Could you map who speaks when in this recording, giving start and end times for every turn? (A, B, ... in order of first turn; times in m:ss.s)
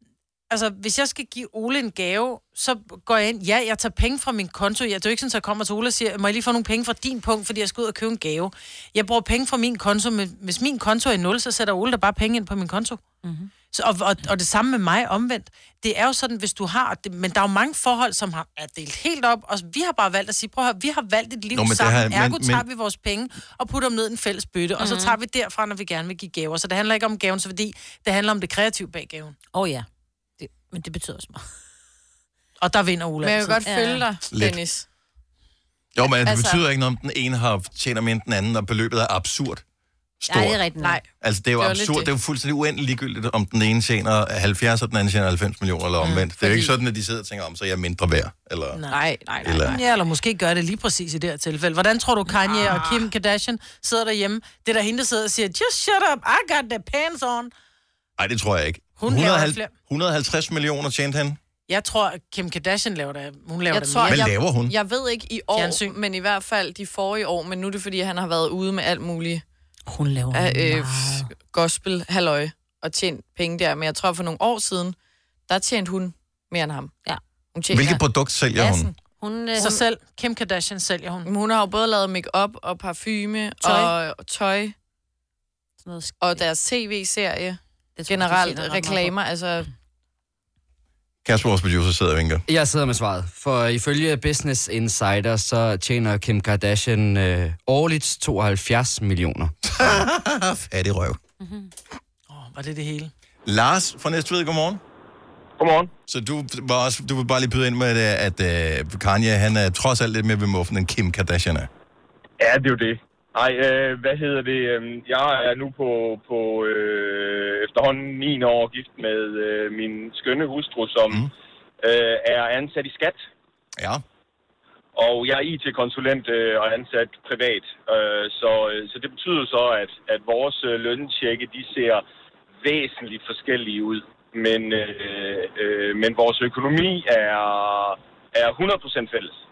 0:00.5-0:13.0 A
0:13.2-0:13.5 B
0:13.7-0:29.4 A
0:21.5-0:22.6 C
0:24.8-0:25.2 B
0:29.5-0:29.8 B
0:30.4-0:31.4 B
0:32.6-0:33.6 A
0:33.2-0:34.8 D
0:33.6-0:34.0 B
0:34.3-0:34.6 C
0:35.9-0:39.6 C
0:36.2-0:36.6 D
0:40.2-0:40.6 C
0:40.3-0:41.0 B
0:40.8-0:41.0 D
0:41.2-0:48.8 C
0:41.6-0:42.1 D
0:46.0-0:46.7 A
0:48.7-0:49.0 A
0:48.9-0:49.8 D
0:49.4-0:49.8 C
0:49.6-0:57.5 A
0:52.4-0:53.1 B
0:58.2-1:01.4 C
0:59.0-0:59.7 A
1:01.7-1:04.3 A
1:03.7-1:09.4 D
1:04.1-1:04.7 C
1:05.5-1:05.9 A
1:09.9-1:11.3 B
1:10.3-1:14.9 D
1:15.5-1:16.9 D
1:17.5-1:18.0 D
1:17.7-1:18.9 C
1:18.6-1:19.8 B
1:19.6-1:21.3 A
1:21.2-1:24.7 D
1:23.6-1:23.9 B
1:25.8-1:26.5 B
1:26.2-1:29.7 D
1:28.0-1:29.1 B
1:31.2-1:32.4 C
1:32.5-1:39.5 E
1:39.6-1:41.2 C
1:41.4-1:41.7 B
1:42.3-1:43.1 A
1:43.4-1:44.8 C
1:45.6-1:45.9 F
1:46.1-1:51.7 C
1:52.4-2:01.3 F
2:01.8-2:03.2 F
2:03.8-2:04.0 C
2:05.0-2:12.0 F
2:12.6-2:19.4 F